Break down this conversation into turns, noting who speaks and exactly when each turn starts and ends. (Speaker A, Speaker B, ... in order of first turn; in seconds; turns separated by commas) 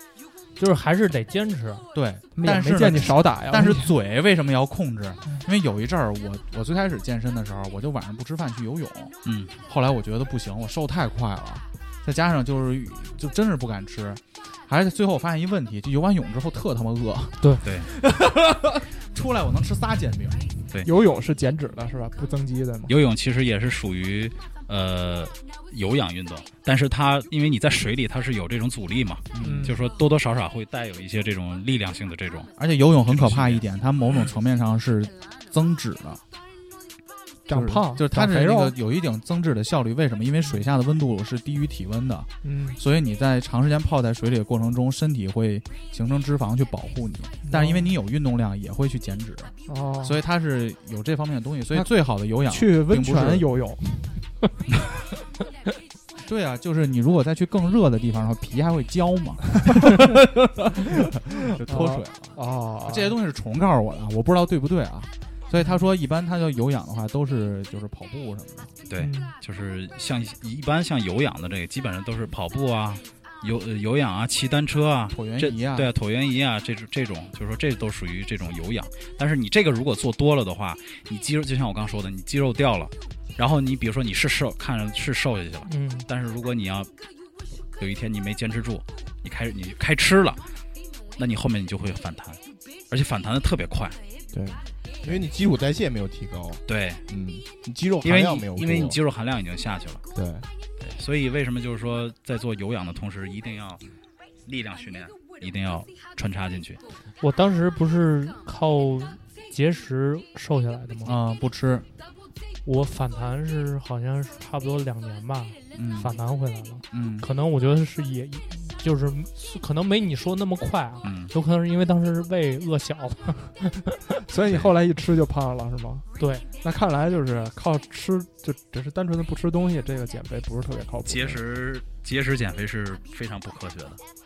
Speaker A: 0.6-1.9, Speaker B: 1.9-9.1, Speaker C: 2.4-3.9, Speaker D: 9.2-9.5, Speaker B: 9.7-20.5, Speaker D: 17.6-17.9, Speaker C: 20.8-22.9, Speaker D: 22.9-32.5, Speaker B: 29.3-29.7, Speaker C: 29.4-29.8, Speaker B: 32.6-36.2, Speaker D: 33.0-33.6, Speaker C: 37.5-38.8, Speaker B: 37.5-53.5, Speaker C: 42.4-42.8, Speaker C: 47.4-47.9, Speaker C: 49.7-50.2, Speaker C: 52.4-54.3, Speaker B: 56.2-68.7, Speaker C: 61.6-63.1, Speaker D: 68.9-86.9, Speaker C: 69.0-69.3, Speaker B: 75.1-75.9, Speaker A: 85.6-86.1, Speaker D: 87.8-90.4, Speaker D: 91.2-94.0, Speaker E: 94.3-99.0, Speaker D: 96.7-97.0, Speaker D: 98.0-100.0, Speaker E: 100.1-100.5, Speaker D: 100.8-103.8, Speaker D: 104.5-106.8, Speaker A: 107.2-111.2, Speaker B: 111.0-111.8, Speaker A: 112.6-124.2, Speaker B: 115.7-116.1, Speaker B: 116.9-117.3, Speaker D: 121.0-121.3, Speaker C: 124.3-126.0, Speaker A: 126.2-126.5, Speaker C: 126.6-131.4, Speaker D: 131.0-134.0